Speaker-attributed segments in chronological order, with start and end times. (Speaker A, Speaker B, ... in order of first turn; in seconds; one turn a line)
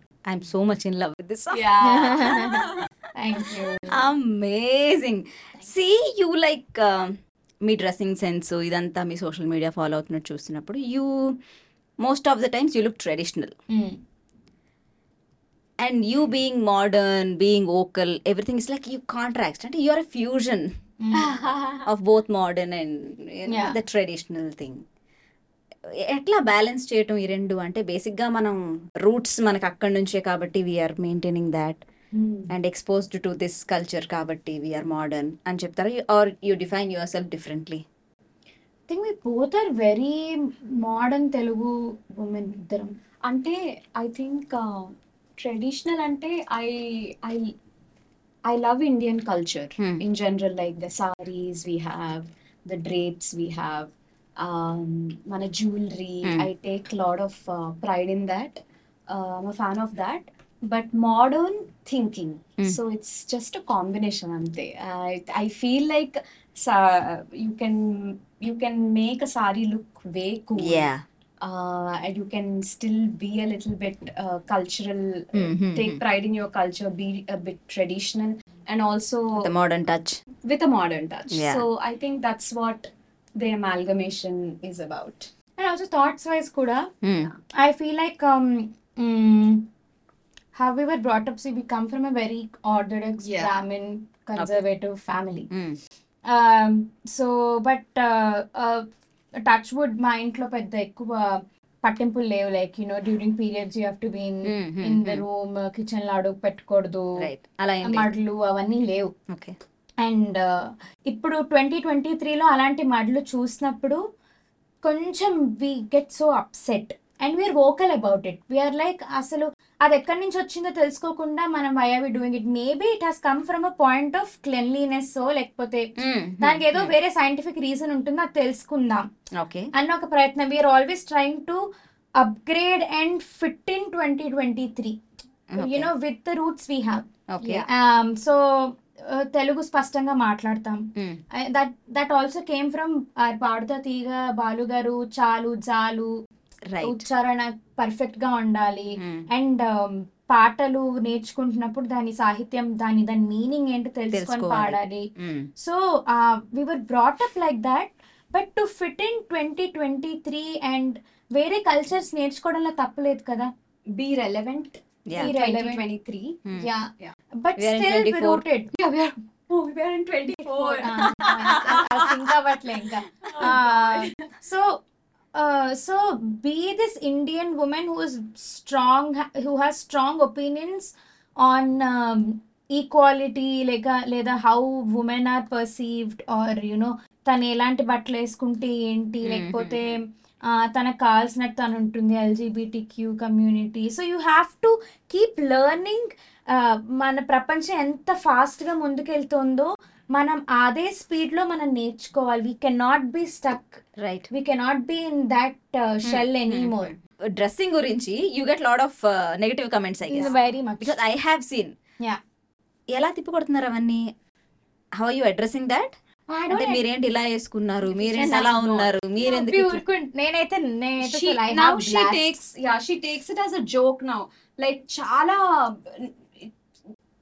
Speaker A: 0.3-2.8
Speaker B: 1.8-4.1
Speaker A: 3.9-11.4
Speaker A: 12.0-13.5
Speaker B: 13.7-14.0
Speaker A: 15.8-20.7
Speaker B: 21.0-21.4
Speaker C: 21.1-21.9
Speaker A: 21.8-24.8
Speaker B: 23.5-23.8
Speaker A: 26.0-31.8
Speaker B: 32.1-32.5
Speaker A: 32.5-37.8
Speaker B: 38.9-42.9
Speaker C: 43.2-47.5
Speaker C: 48.4-70.9
Speaker A: 56.2-56.5
Speaker A: 70.6-71.0
Speaker C: 71.4-79.5
Speaker A: 75.3-76.0
Speaker A: 79.4-80.2
Speaker C: 80.4-85.3
Speaker A: 81.3-81.7
Speaker B: 85.6-86.9
Speaker A: 87.0-87.3
Speaker B: 87.5-89.7
Speaker B: 90.5-95.5
Speaker C: 93.2-93.5
Speaker A: 95.5-95.8
Speaker B: 96.3-98.9
Speaker B: 99.4-107.3
Speaker A: 104.5-105.2
Speaker A: 107.2-108.1
Speaker B: 107.8-109.1
Speaker A: 109.3-109.5
Speaker B: 110.0-114.0
Speaker B: 114.8-129.1
Speaker A: 126.0-126.9
Speaker A: 129.3-129.7
Speaker B: 129.7-131.7
Speaker B: 132.2-135.0
Speaker A: 135.5-135.9
Speaker B: 135.6-146.1
Speaker A: 137.3-137.7
Speaker A: 146.7-147.1
Speaker B: 146.8-163.5
Speaker A: 149.0-149.2
Speaker A: 154.1-155.5
Speaker C: 163.9-166.4
Speaker A: 165.1-165.3
Speaker B: 165.2-165.8
Speaker B: 166.5-168.7
Speaker A: 167.6-168.4
Speaker C: 168.7-172.2
Speaker B: 170.4-174.8
Speaker A: 171.4-171.9
Speaker C: 173.2-174.3
Speaker B: 175.3-206.9
Speaker A: 189.2-189.8
Speaker A: 204.0-204.3
Speaker A: 206.0-211.7
Speaker B: 210.1-210.9
Speaker A: 212.9-214.0
Speaker A: 215.0-215.9
Speaker B: 216.3-216.8
Speaker A: 216.5-219.8
Speaker B: 217.9-222.2
Speaker C: 218.0-218.8
Speaker C: 221.0-226.5